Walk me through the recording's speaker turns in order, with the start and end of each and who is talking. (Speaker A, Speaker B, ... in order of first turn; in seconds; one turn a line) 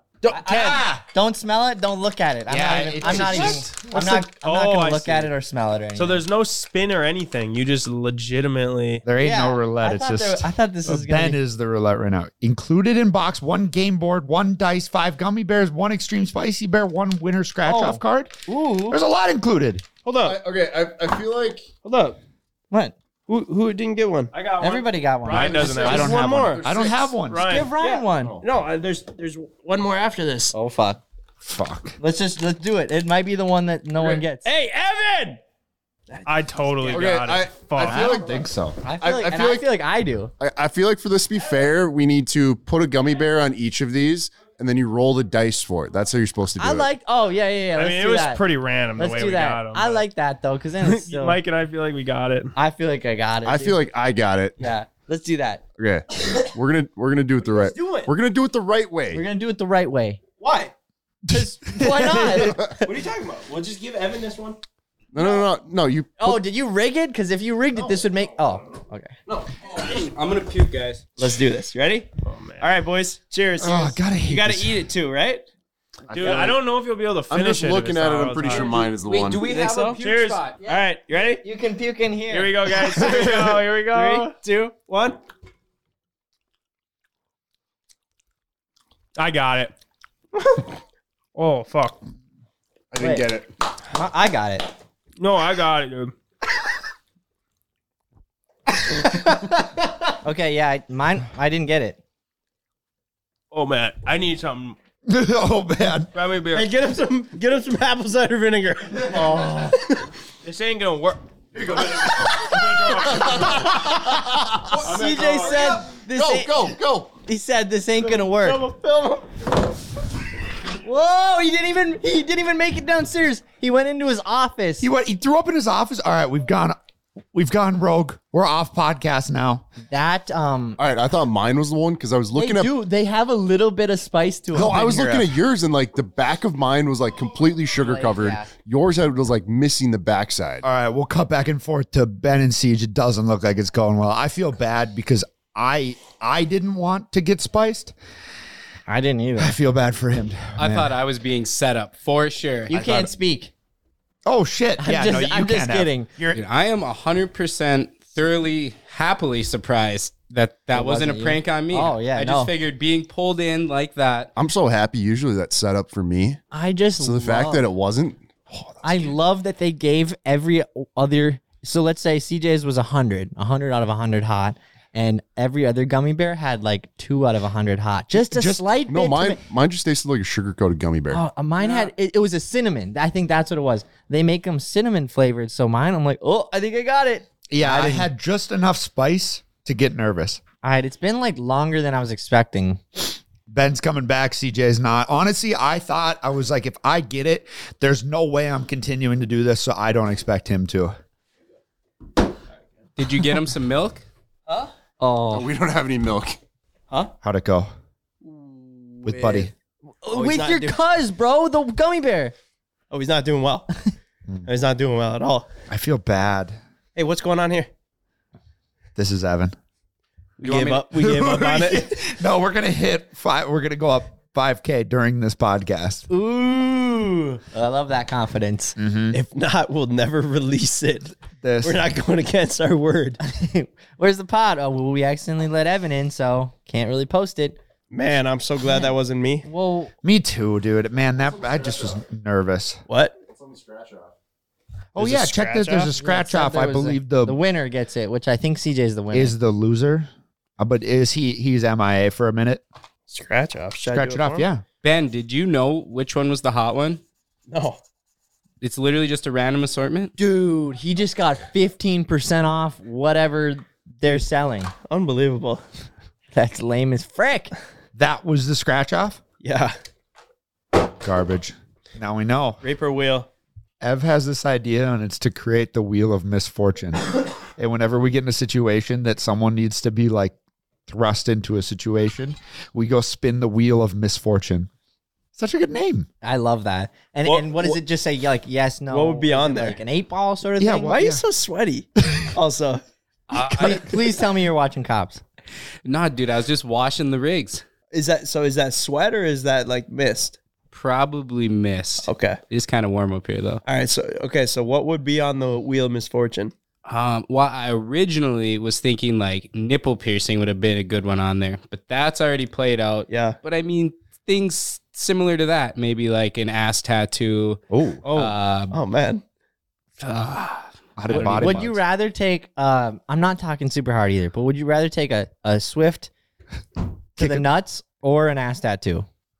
Speaker A: 0.2-0.7
Speaker B: 0.3-6.2
Speaker C: 0.4-1.0
Speaker C: 2.5-3.7
Speaker D: 3.0-5.3
Speaker D: 5.9-9.0
Speaker C: 9.1-19.8
Speaker B: 9.2-11.4
Speaker B: 17.6-19.0
Speaker D: 20.1-20.3
Speaker E: 20.2-21.6
Speaker A: 21.8-22.1
Speaker A: 23.3-24.3
Speaker D: 24.3-26.6
Speaker B: 24.6-26.1
Speaker C: 25.3-27.6
Speaker E: 25.4-27.2
Speaker D: 27.2-27.7
Speaker B: 27.4-28.4
Speaker A: 27.8-30.5
Speaker E: 28.1-28.4
Speaker B: 30.5-31.0
Speaker C: 31.4-32.0
Speaker B: 32.0-34.5
Speaker D: 34.5-35.4
Speaker D: 36.2-38.1
Speaker E: 36.9-39.6
Speaker C: 37.8-38.8
Speaker B: 38.8-40.3
Speaker E: 40.4-46.9
Speaker B: 46.6-48.4
Speaker D: 47.8-50.0
Speaker B: 49.0-51.4
Speaker D: 50.8-52.5
Speaker B: 52.5-53.8
Speaker E: 53.4-54.5
Speaker B: 54.6-55.6
Speaker E: 55.8-59.2
Speaker A: 57.6-58.1
Speaker B: 59.1-60.2
Speaker A: 60.4-60.7
Speaker C: 61.2-62.5
Speaker B: 61.3-62.9
Speaker A: 62.8-64.6
Speaker E: 65.1-66.4
Speaker B: 66.2-69.1
Speaker F: 69.7-71.0
Speaker A: 71.2-72.1
Speaker D: 72.2-72.7
Speaker A: 72.6-75.4
Speaker C: 73.6-74.8
Speaker E: 76.1-76.6
Speaker D: 76.1-78.8
Speaker E: 77.3-79.5
Speaker F: 78.8-80.6
Speaker A: 79.5-79.9
Speaker D: 79.9-80.5
Speaker A: 80.6-81.4
Speaker B: 81.4-83.3
Speaker D: 82.3-84.4
Speaker B: 83.9-84.7
Speaker A: 84.7-85.2
Speaker D: 89.2-89.7
Speaker D: 91.3-92.0
Speaker E: 92.9-93.5
Speaker B: 93.0-93.3
Speaker B: 93.9-94.7
Speaker D: 95.2-96.1
Speaker B: 99.0-102.0
Speaker D: 103.5-104.8
Speaker C: 105.1-106.1
Speaker D: 106.1-106.7
Speaker A: 106.5-110.0
Speaker B: 109.1-109.7
Speaker D: 110.4-111.2
Speaker D: 112.3-113.7
Speaker E: 113.2-113.6
Speaker E: 114.5-117.1
Speaker B: 114.7-118.6
Speaker D: 115.1-115.4
Speaker A: 118.2-119.2
Speaker B: 120.8-124.9
Speaker C: 124.8-126.8
Speaker C: 127.3-129.7
Speaker B: 129.9-130.8
Speaker E: 130.8-132.7
Speaker B: 132.3-135.2
Speaker E: 134.5-140.6
Speaker C: 134.6-135.2
Speaker B: 137.8-138.5
Speaker C: 140.6-147.9
Speaker B: 148.9-149.6
Speaker C: 149.4-150.9
Speaker F: 150.6-152.9
Speaker B: 152.7-153.5
Speaker C: 152.7-153.1
Speaker C: 154.2-156.4
Speaker B: 154.8-156.1
Speaker F: 156.3-164.3
Speaker B: 160.7-162.5
Speaker E: 164.3-166.4
Speaker B: 166.5-167.6
Speaker E: 167.0-168.2
Speaker C: 168.5-169.1
Speaker B: 168.8-179.4
Speaker C: 178.1-178.7
Speaker E: 178.9-181.2
Speaker B: 181.1-188.1
Speaker A: 181.6-181.9
Speaker C: 187.5-190.4
Speaker B: 190.6-192.8
Speaker C: 193.5-200.9
Speaker F: 203.0-204.0
Speaker B: 205.0-205.5
Speaker E: 205.3-206.4
Speaker C: 207.2-207.7
Speaker C: 209.0-209.5
Speaker B: 210.0-212.3
Speaker A: 210.1-210.8
Speaker A: 212.9-213.7
Speaker A: 214.4-215.5
Speaker C: 215.7-216.6
Speaker A: 216.9-217.7
Speaker C: 219.0-219.5
Speaker A: 220.4-222.0
Speaker C: 220.4-226.1
Speaker B: 226.1-228.8
Speaker C: 228.8-229.2
Speaker A: 229.1-233.2
Speaker C: 231.4-231.9
Speaker B: 233.2-237.6
Speaker A: 237.9-239.4
Speaker B: 239.4-239.9
Speaker C: 240.0-242.8
Speaker E: 241.2-241.9
Speaker A: 242.9-243.2
Speaker E: 243.3-244.1
Speaker C: 244.9-247.4
Speaker D: 245.0-245.9
Speaker B: 245.9-249.3
Speaker C: 249.1-252.6
Speaker A: 253.1-254.5
Speaker C: 253.9-254.6
Speaker F: 254.8-257.0
Speaker A: 257.5-257.8
Speaker F: 258.6-260.1
Speaker B: 260.2-264.7
Speaker A: 264.9-265.6
Speaker B: 266.3-267.5
Speaker C: 267.9-269.2
Speaker A: 269.4-269.7
Speaker C: 271.0-272.6
Speaker A: 272.6-273.3
Speaker C: 273.8-280.3
Speaker C: 280.9-284.7
Speaker C: 285.4-286.1
Speaker B: 286.2-290.9
Speaker A: 287.2-287.8
Speaker A: 288.9-289.8
Speaker C: 290.6-291.2
Speaker A: 290.9-292.8
Speaker A: 293.3-294.0
Speaker B: 293.5-295.2
Speaker F: 295.8-297.6
Speaker A: 297.9-300.4
Speaker F: 300.7-303.6
Speaker A: 302.0-302.4
Speaker A: 303.6-306.5
Speaker F: 306.8-318.7
Speaker A: 313.1-313.4
Speaker C: 317.7-318.0
Speaker A: 318.1-319.2
Speaker F: 320.0-320.5
Speaker C: 321.0-321.8
Speaker F: 321.1-321.7
Speaker B: 321.2-326.1
Speaker C: 327.2-327.5
Speaker B: 327.2-329.1